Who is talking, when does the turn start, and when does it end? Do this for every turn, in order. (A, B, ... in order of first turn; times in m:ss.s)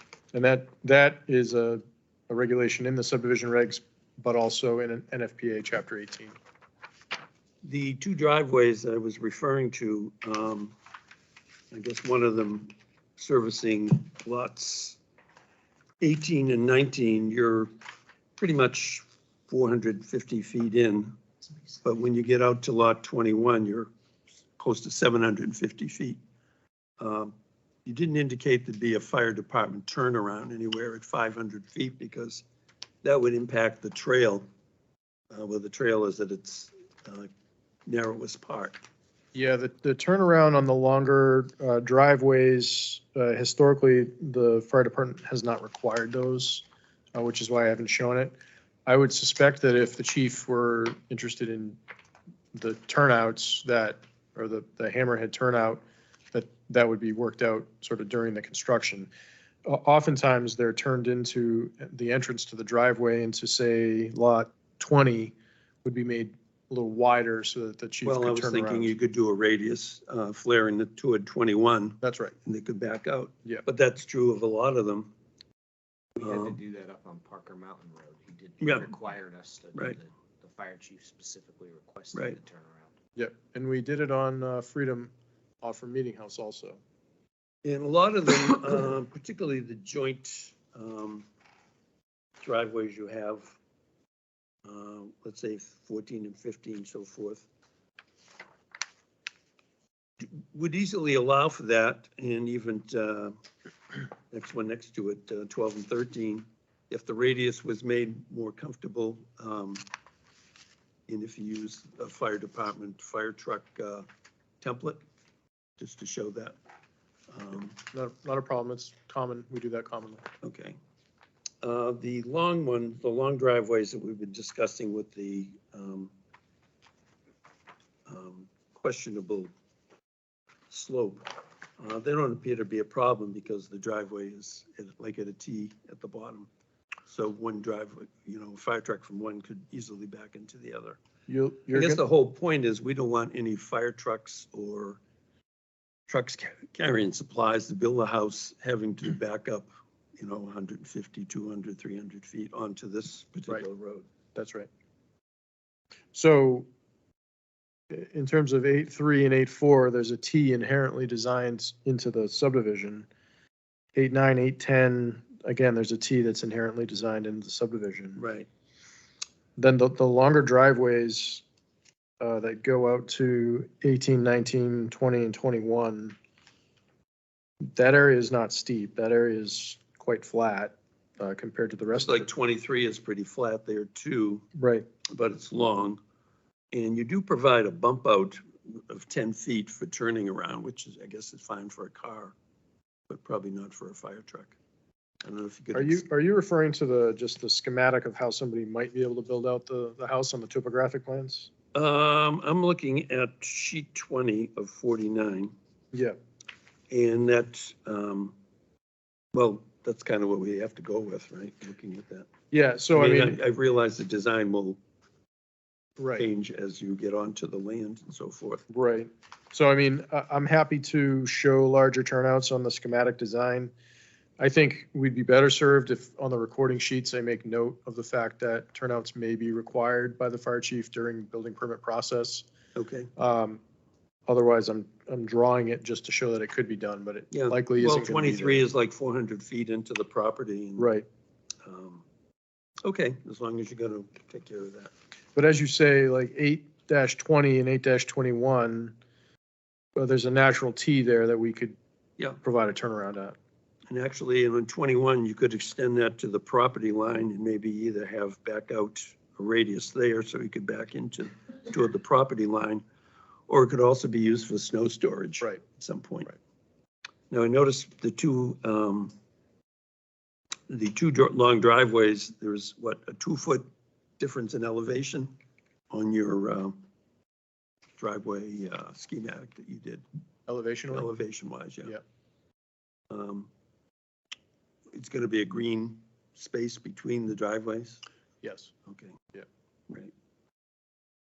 0:00.3-0:06.4 A
0:07.6-0:10.8 B
0:11.7-0:15.0 B
0:16.0-0:17.7 B
0:18.4-0:21.2 B
0:21.8-0:23.9 B
0:24.6-0:26.2 B
0:27.0-0:32.4 B
0:33.0-0:34.4 B
0:35.3-0:37.3 B
0:37.9-0:38.8 B
0:39.3-0:51.8 A
0:52.5-0:59.1 A
0:59.7-1:08.9 A
1:08.0-1:15.1 B
1:12.0-1:12.3 A
1:16.2-1:22.9 C
1:16.2-1:16.6 B
1:18.6-1:18.9 B
1:19.7-1:20.0 B
1:22.1-1:22.4 B
1:23.2-1:26.8 A
1:27.6-1:31.3 B
1:32.4-1:33.6 B
1:34.6-1:37.5 B
1:40.2-1:43.4 B
1:44.3-1:49.9 B
1:51.1-1:54.1 B
1:54.6-1:55.0 B
1:55.8-1:56.6 B
1:57.3-1:57.8 B
1:57.9-2:00.2 A
2:00.4-2:00.8 B
2:01.6-2:06.1 B
2:08.1-2:09.5 B
2:10.7-2:16.5 B
2:17.1-2:21.0 B
2:21.3-2:22.0 A
2:21.7-2:25.0 B
2:26.1-2:34.1 B
2:34.3-2:34.7 A
2:36.1-2:36.7 A
2:37.9-2:43.1 A
2:44.0-2:48.2 A
2:48.2-2:48.5 B
2:49.6-2:51.4 A
2:52.2-2:56.2 A
2:57.7-3:02.3 A
3:02.0-3:04.5 B
3:04.6-3:04.9 A
3:05.1-3:06.0 B
3:06.7-3:12.3 B
3:13.1-3:14.6 B
3:15.2-3:16.0 B
3:15.7-3:21.5 A
3:21.7-3:25.5 B
3:26.9-3:28.4 B
3:29.3-3:32.3 B
3:32.5-3:33.4 A
3:33.0-3:34.8 B
3:36.0-3:36.3 A
3:36.2-3:38.6 B
3:38.7-3:43.7 A
3:44.4-3:52.5 A
3:52.8-3:53.1 B
3:53.2-3:53.6 A
3:54.3-3:58.7 A
3:57.3-4:00.9 B
4:00.8-4:01.1 A
4:01.6-4:02.0 B
4:02.8-4:04.9 B
4:05.4-4:09.0 A
4:10.0-4:11.8 A
4:12.4-4:13.4 A
4:13.9-4:22.8 B
4:23.5-4:26.3 B
4:27.3-4:29.1 B
4:30.7-4:33.7 B
4:34.2-4:35.4 B
4:35.9-4:36.8 B
4:38.0-4:40.0 B
4:40.5-4:41.1 A
4:40.9-4:41.9 B
4:43.1-4:43.5 B
4:44.9-4:48.0 B
4:48.4-4:48.7 A
4:48.9-4:49.2 B